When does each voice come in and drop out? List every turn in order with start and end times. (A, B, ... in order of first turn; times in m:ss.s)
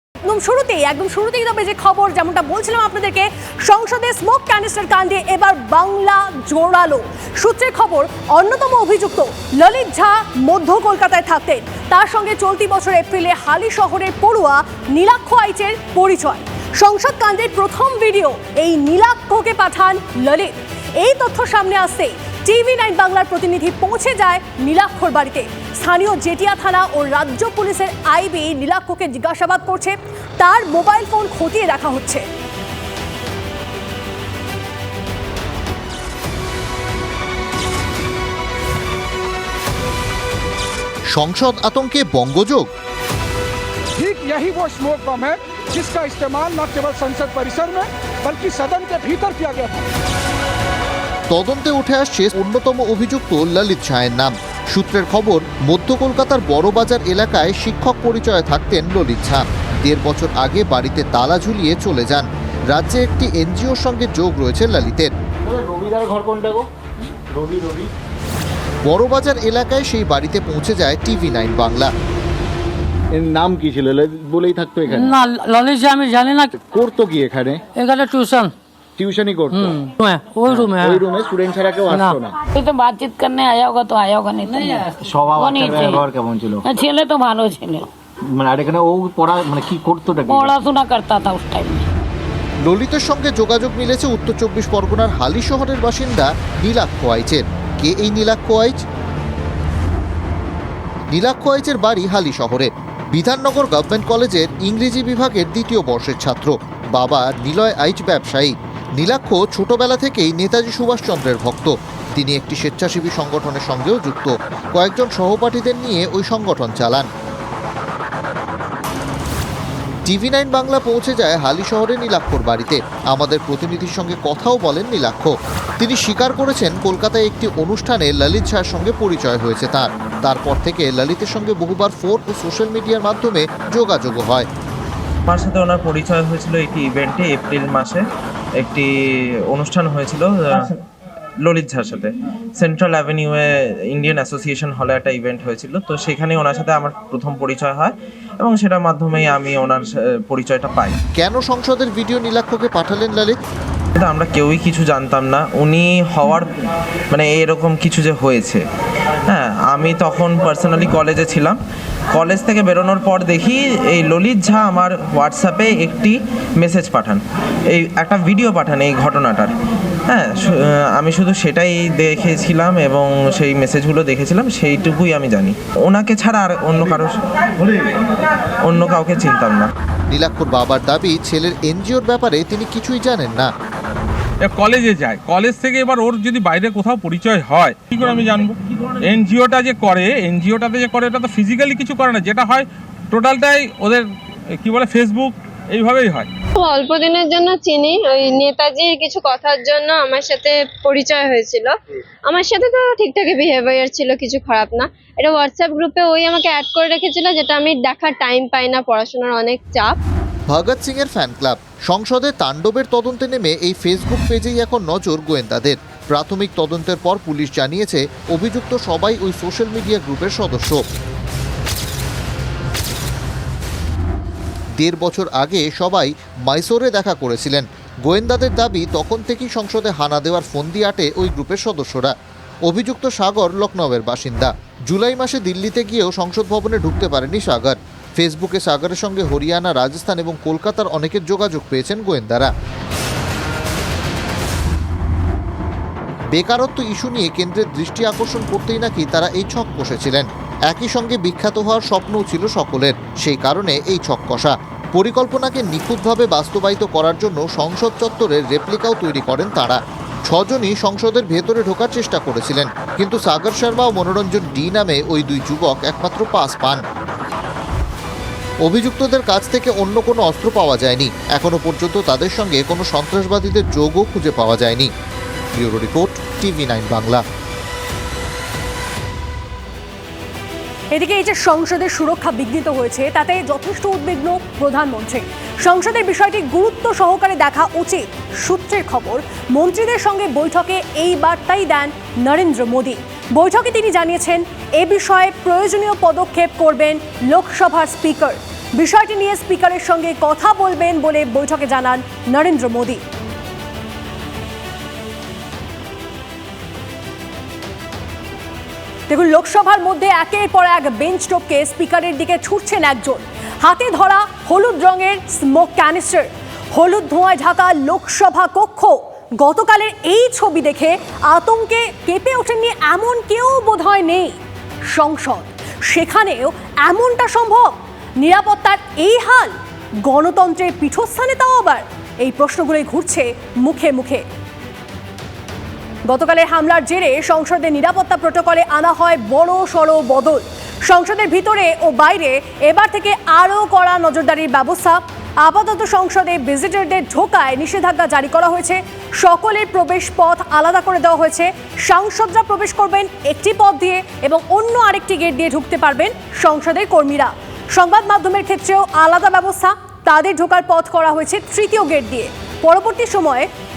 0:00.2-0:32.2 A
0:41.1-0:42.7 B
0:44.0-0:49.9 C
0:51.3-1:05.1 B
1:05.5-1:06.6 D
1:07.3-1:07.9 D
1:08.9-1:11.9 B
1:13.2-1:15.1 D
1:14.9-1:16.5 E
1:16.5-1:17.6 D
1:17.7-1:18.5 E
1:19.0-1:19.7 D
1:19.5-1:21.0 E
1:20.5-1:22.3 D
1:21.9-1:22.2 E
1:22.5-1:26.1 F
1:25.0-1:26.7 D
1:26.6-1:27.9 F
1:28.3-1:30.5 D
1:30.3-1:31.8 F
1:32.6-1:38.8 B
1:41.1-1:57.1 B
2:00.0-2:14.5 B
2:15.3-2:18.0 G
2:18.6-2:18.9 G
2:19.5-2:20.7 G
2:21.4-2:31.0 G
2:31.2-2:33.4 B
2:34.0-2:36.5 G
2:37.1-2:38.6 G
2:39.3-2:41.6 G
2:42.1-2:49.5 G
2:50.1-2:57.9 G
2:58.6-2:59.7 G
3:00.1-3:03.5 B
3:04.4-3:14.0 H
3:14.6-3:16.3 H
3:16.6-3:21.7 I
3:22.3-3:30.0 I
3:30.5-3:40.8 B
3:44.8-3:52.1 B
3:52.7-4:02.5 B
4:06.4-4:26.8 B
4:28.6-4:34.9 B
4:35.5-4:37.2 B
4:40.9-5:03.0 A
5:09.1-5:24.4 A
5:24.9-5:29.5 A
5:30.0-5:34.2 A
5:36.1-6:03.5 A